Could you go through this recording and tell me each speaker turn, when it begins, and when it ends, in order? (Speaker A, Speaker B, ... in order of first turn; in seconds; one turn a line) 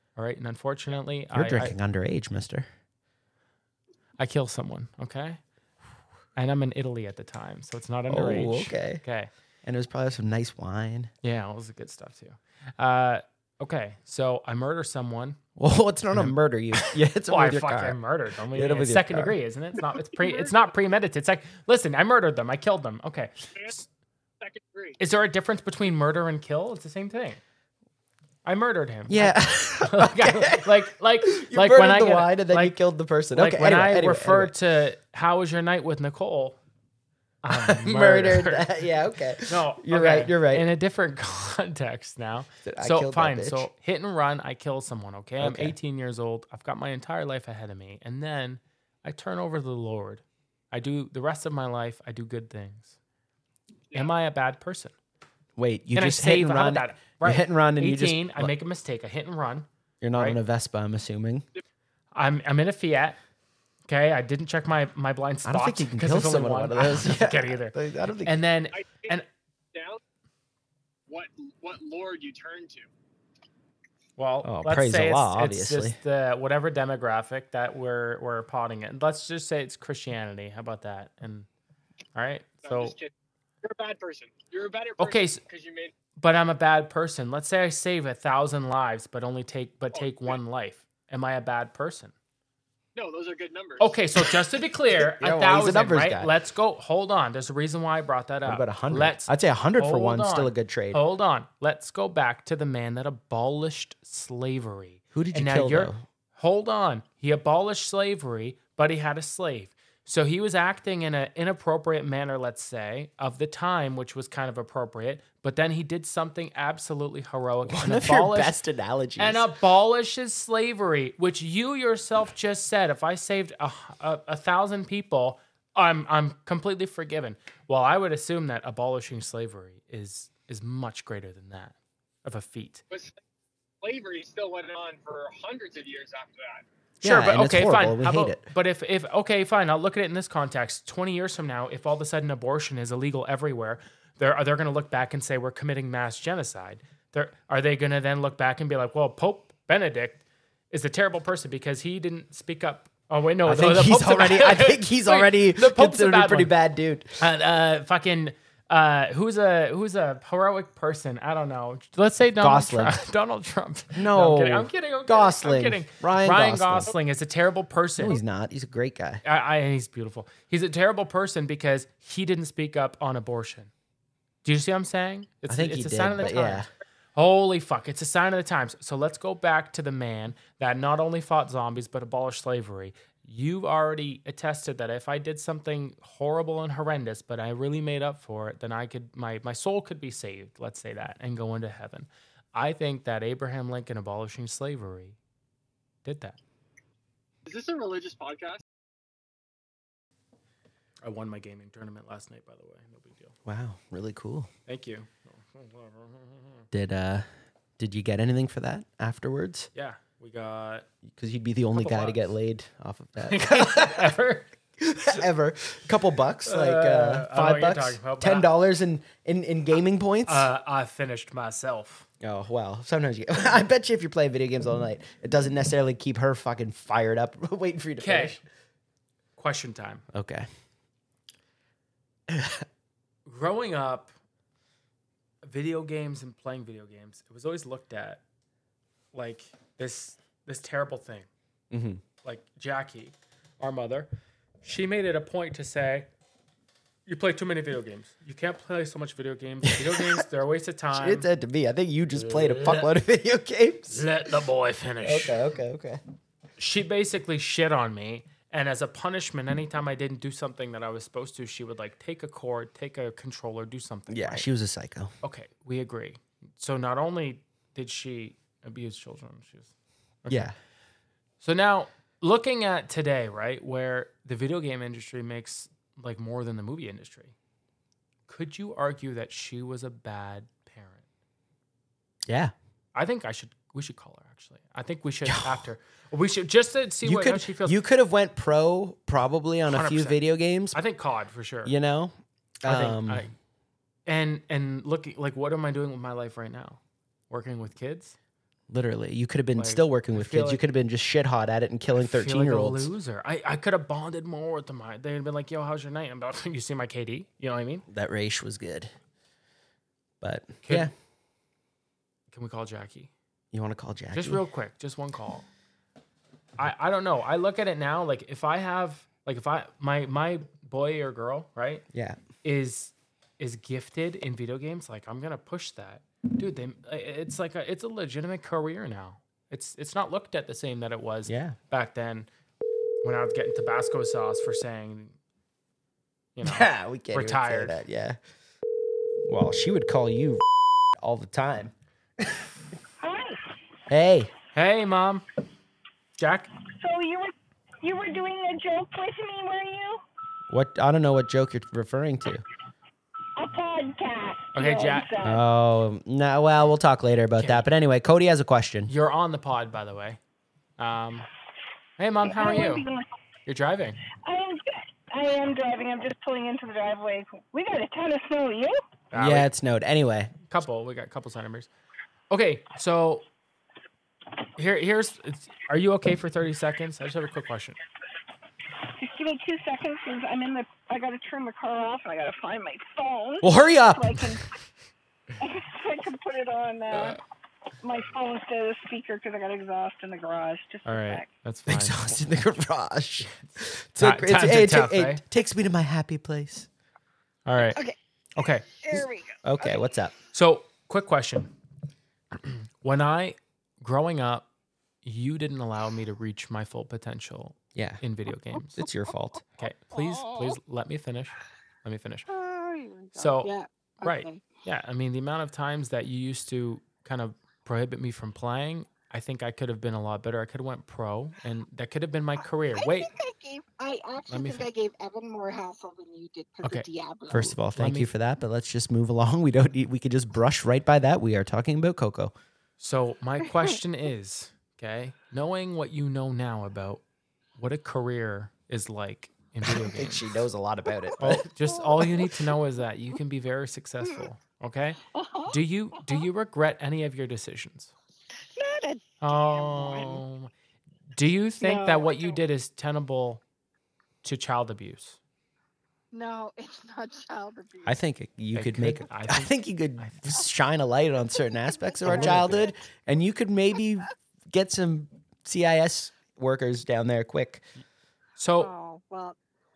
Speaker A: 0.1-1.7
Speaker B: 1.3-2.7
Speaker A: 4.2-5.4
Speaker A: 6.3-9.3
Speaker B: 8.1-9.0
Speaker B: 9.6-11.1
Speaker A: 11.2-15.4
Speaker B: 15.6-18.0
Speaker A: 16.1-23.9
Speaker B: 18.5-19.3
Speaker C: 20.2-20.5
Speaker C: 24.4-25.0
Speaker A: 25.0-27.4
Speaker A: 28.4-32.8
Speaker B: 29.1-34.5
Speaker A: 33.3-36.6
Speaker A: 37.4-38.9
Speaker B: 37.5-40.7
Speaker A: 39.5-52.9
Speaker B: 42.6-43.7
Speaker B: 45.4-45.8
Speaker A: 53.9-54.9
Speaker B: 55.6-58.5
Speaker A: 55.9-60.4
Speaker B: 60.0-61.5
Speaker A: 62.1-63.2
Speaker A: 63.9-69.2
Speaker B: 65.4-68.4
Speaker C: 68.7-69.2
Speaker C: 69.7-70.0
Speaker C: 71.1-72.9
Speaker A: 74.2-81.5
Speaker B: 74.4-76.0
Speaker A: 82.1-82.9
Speaker C: 82.6-83.1
Speaker C: 83.6-85.9
Speaker A: 85.0-85.4
Speaker A: 86.2-92.1
Speaker C: 89.9-90.4
Speaker C: 92.9-93.9
Speaker A: 93.8-118.6
Speaker B: 95.0-96.3
Speaker B: 98.4-101.0
Speaker B: 105.1-106.0
Speaker B: 117.6-119.5
Speaker A: 119.2-132.8
Speaker C: 132.9-133.2
Speaker C: 133.8-136.6
Speaker A: 137.0-156.5
Speaker B: 137.0-138.4
Speaker B: 153.4-157.2
Speaker A: 157.2-168.2
Speaker B: 162.4-163.0
Speaker B: 163.9-166.9
Speaker B: 168.0-169.2
Speaker A: 169.2-173.7
Speaker A: 174.4-195.2
Speaker B: 175.5-176.7
Speaker A: 196.0-196.4
Speaker C: 197.4-198.6
Speaker A: 201.0-203.3
Speaker B: 203.4-204.5
Speaker A: 204.7-206.7
Speaker B: 206.7-207.3
Speaker B: 207.8-209.7
Speaker A: 209.7-210.9
Speaker B: 211.1-214.2
Speaker A: 211.7-212.3
Speaker A: 213.2-214.5
Speaker B: 214.8-220.5
Speaker A: 216.4-218.5
Speaker A: 220.3-222.1
Speaker B: 222.2-228.4
Speaker A: 228.0-228.4
Speaker A: 229.4-230.0
Speaker B: 230.1-230.5
Speaker B: 232.3-232.6
Speaker A: 233.2-234.1
Speaker A: 235.4-238.2
Speaker A: 239.1-241.3
Speaker B: 241.7-242.0
Speaker A: 242.2-244.1
Speaker A: 244.6-246.1
Speaker A: 247.1-251.3
Speaker B: 249.6-250.2
Speaker B: 250.9-254.1
Speaker A: 252.1-252.9
Speaker A: 253.9-255.4
Speaker B: 255.0-256.0
Speaker A: 256.6-264.5
Speaker B: 264.1-265.1
Speaker A: 265.2-269.7
Speaker A: 270.2-270.5
Speaker B: 270.3-270.5
Speaker A: 271.4-277.3
Speaker A: 278.3-281.0
Speaker B: 282.3-282.5
Speaker A: 282.9-287.8
Speaker B: 285.2-285.6
Speaker B: 287.0-290.8
Speaker A: 289.7-290.2
Speaker A: 290.7-291.7
Speaker B: 291.6-293.3
Speaker A: 292.6-293.3
Speaker A: 294.1-296.8
Speaker A: 297.3-298.1
Speaker B: 298.7-302.9
Speaker A: 299.6-300.6
Speaker A: 301.9-307.8
Speaker B: 307.9-308.9
Speaker B: 310.2-310.9
Speaker A: 310.6-310.9
Speaker A: 312.3-313.1
Speaker B: 313.5-314.4
Speaker A: 314.1-315.4
Speaker A: 316.6-321.8
Speaker B: 321.9-322.2
Speaker A: 322.4-332.3
Speaker B: 331.2-331.6
Speaker A: 333.0-335.1
Speaker A: 336.4-337.8
Speaker B: 336.4-338.2
Speaker B: 339.3-340.4
Speaker B: 341.0-342.4
Speaker D: 343.0-343.4
Speaker B: 343.9-344.3
Speaker A: 344.5-345.2
Speaker A: 346.2-346.5
Speaker D: 346.7-350.0
Speaker B: 350.5-352.4
Speaker D: 353.4-355.4
Speaker A: 354.5-355.1
Speaker B: 355.2-358.9
Speaker A: 357.4-357.6
Speaker A: 358.9-360.2
Speaker A: 360.8-361.3
Speaker A: 362.0-362.9
Speaker D: 362.2-363.1
Speaker A: 363.4-364.0
Speaker D: 364.2-368.8
Speaker A: 369.1-369.5
Speaker B: 369.1-370.3
Speaker A: 370.5-371.7
Speaker A: 372.3-373.2
Speaker A: 374.6-377.8
Speaker D: 379.0-384.4
Speaker B: 383.4-384.2
Speaker D: 385.4-387.2
Speaker A: 386.9-387.2
Speaker D: 387.8-391.3
Speaker A: 390.8-392.1
Speaker B: 391.7-396.7
Speaker A: 393.2-395.2
Speaker A: 397.4-397.8
Speaker E: 397.6-398.0
Speaker A: 398.4-398.7
Speaker E: 398.8-399.8
Speaker B: 399.4-400.1
Speaker A: 400.3-401.5
Speaker A: 402.3-404.5
Speaker A: 405.0-408.8
Speaker B: 407.7-408.0
Speaker B: 408.8-409.4
Speaker A: 409.6-412.3
Speaker E: 409.9-410.6
Speaker E: 412.3-414.4
Speaker A: 413.1-413.5
Speaker A: 414.0-423.1
Speaker E: 422.7-427.5
Speaker A: 424.3-424.7
Speaker A: 426.6-428.1
Speaker B: 427.3-432.3
Speaker A: 432.8-437.0
Speaker A: 437.6-440.4
Speaker B: 439.6-441.4
Speaker E: 440.9-442.6
Speaker A: 441.2-447.9
Speaker E: 445.1-446.2
Speaker E: 448.5-450.2
Speaker A: 449.2-450.5
Speaker A: 451.1-453.4
Speaker E: 451.6-452.4
Speaker A: 454.2-455.2
Speaker E: 456.1-458.0
Speaker B: 457.8-467.6
Speaker A: 458.5-460.3
Speaker E: 461.9-462.7
Speaker A: 462.0-462.7
Speaker A: 468.4-468.7
Speaker E: 468.6-469.4